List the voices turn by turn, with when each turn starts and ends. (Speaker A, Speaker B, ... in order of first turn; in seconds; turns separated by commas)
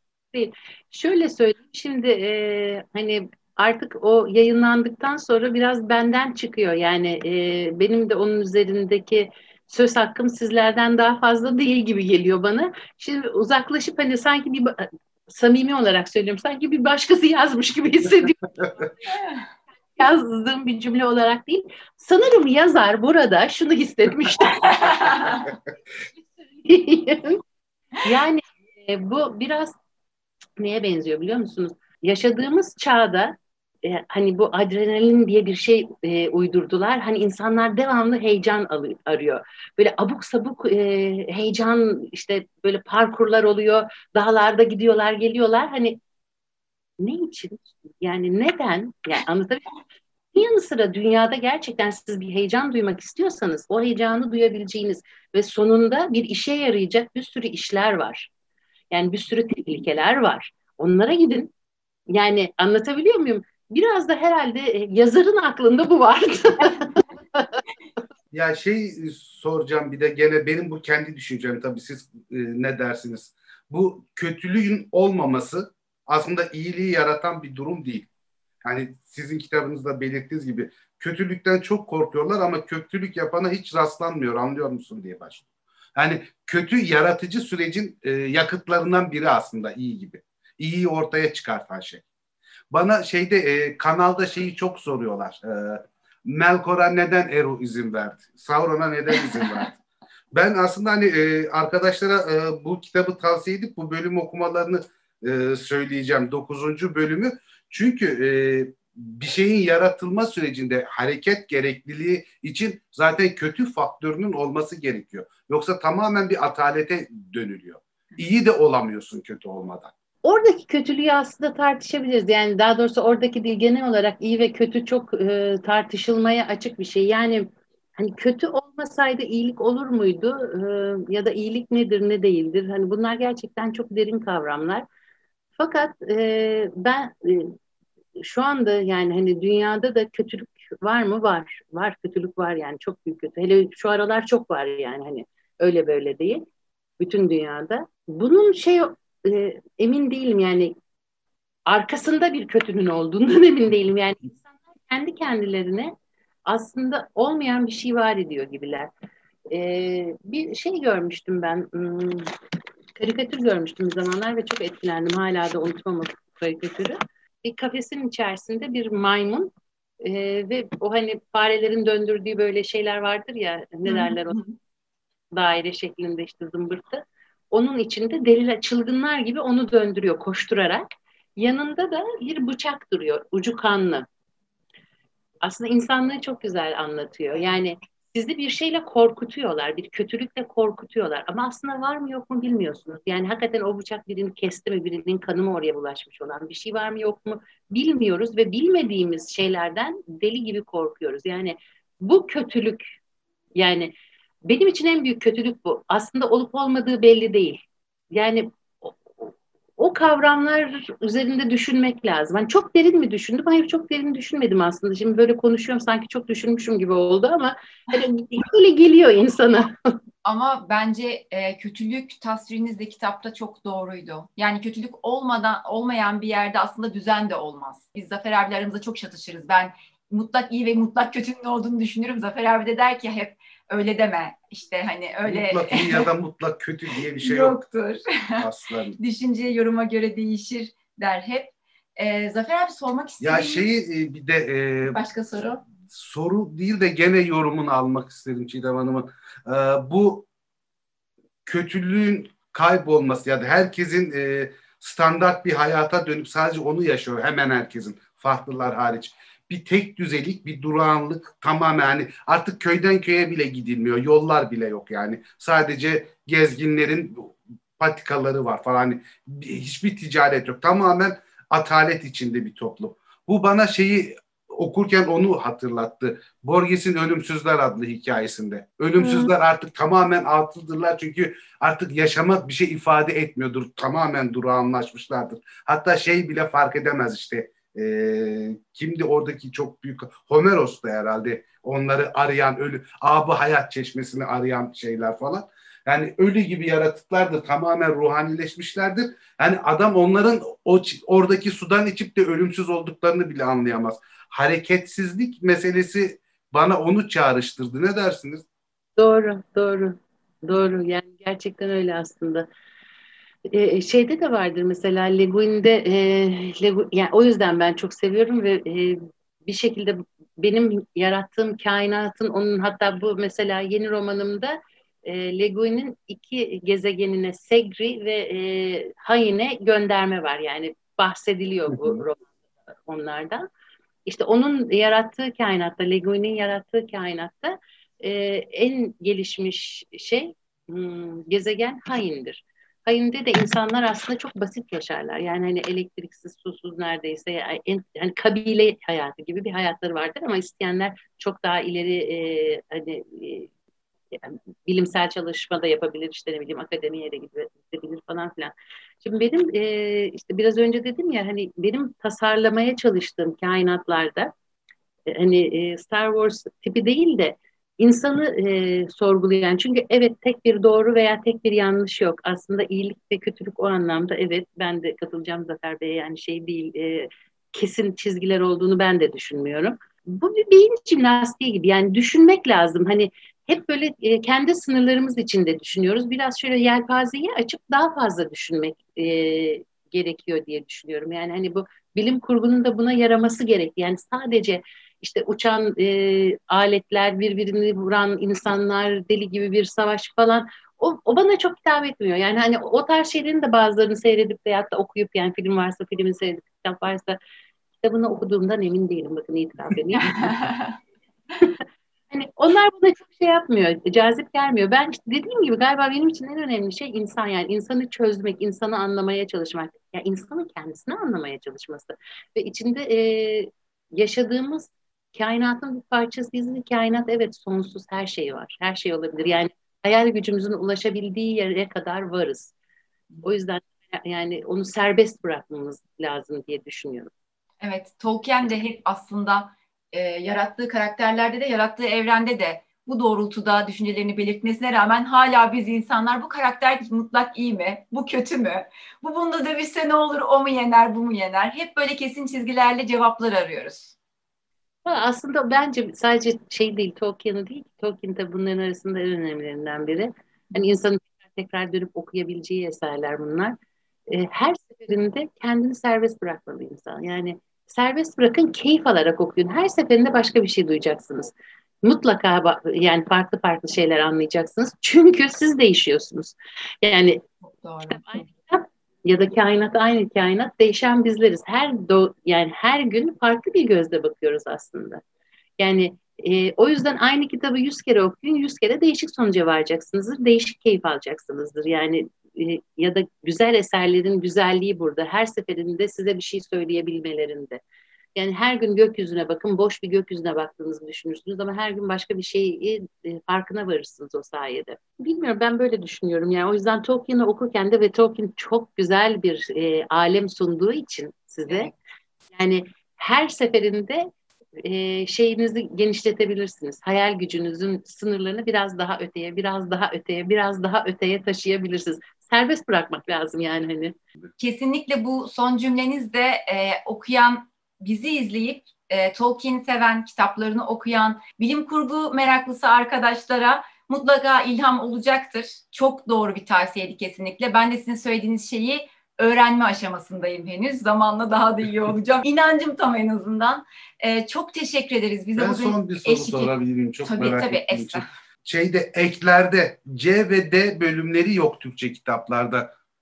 Speaker A: 0.3-19.2, Speaker A: 19.9-25.4, Speaker B: 24.7-25.4, Speaker A: 26.2-27.4, Speaker A: 28.0-29.7, Speaker A: 30.6-46.0, Speaker A: 47.0-49.7, Speaker A: 50.3-58.3, Speaker A: 58.9-61.5, Speaker A: 62.1-67.6, Speaker C: 68.3-78.1, Speaker C: 78.6-92.0, Speaker C: 92.7-99.8, Speaker C: 100.3-119.9, Speaker A: 120.2-134.9, Speaker A: 135.6-137.6, Speaker A: 138.2-146.4, Speaker A: 147.0-150.8, Speaker A: 151.7-155.9, Speaker A: 156.5-158.9, Speaker A: 159.5-162.3, Speaker A: 163.0-174.4, Speaker B: 173.9-174.6, Speaker A: 175.3-184.1, Speaker A: 185.4-202.8, Speaker A: 203.6-203.9, Speaker A: 204.4-219.8, Speaker B: 220.2-236.1, Speaker C: 235.2-237.6, Speaker B: 237.2-238.4, Speaker C: 238.4-239.0, Speaker B: 239.0-243.7, Speaker C: 243.2-245.0, Speaker B: 244.9-245.7, Speaker C: 245.9-250.3, Speaker C: 251.4-308.4, Speaker B: 279.0-279.3, Speaker A: 309.0-312.5, Speaker A: 313.5-332.3, Speaker A: 332.9-333.5, Speaker A: 334.1-353.5, Speaker A: 354.1-364.3, Speaker A: 365.1-407.2, Speaker A: 407.8-410.4, Speaker B: 410.1-410.7, Speaker A: 411.4-432.5, Speaker A: 433.2-437.1, Speaker B: 437.6-453.9, Speaker A: 454.9-463.6, Speaker A: 464.1-471.3, Speaker A: 471.8-477.2, Speaker B: 477.6-478.1, Speaker A: 477.9-485.0, Speaker A: 485.6-497.6, Speaker A: 498.2-511.7, Speaker A: 512.3-524.0, Speaker B: 524.4-546.5, Speaker C: 545.4-552.7, Speaker B: 547.0-548.1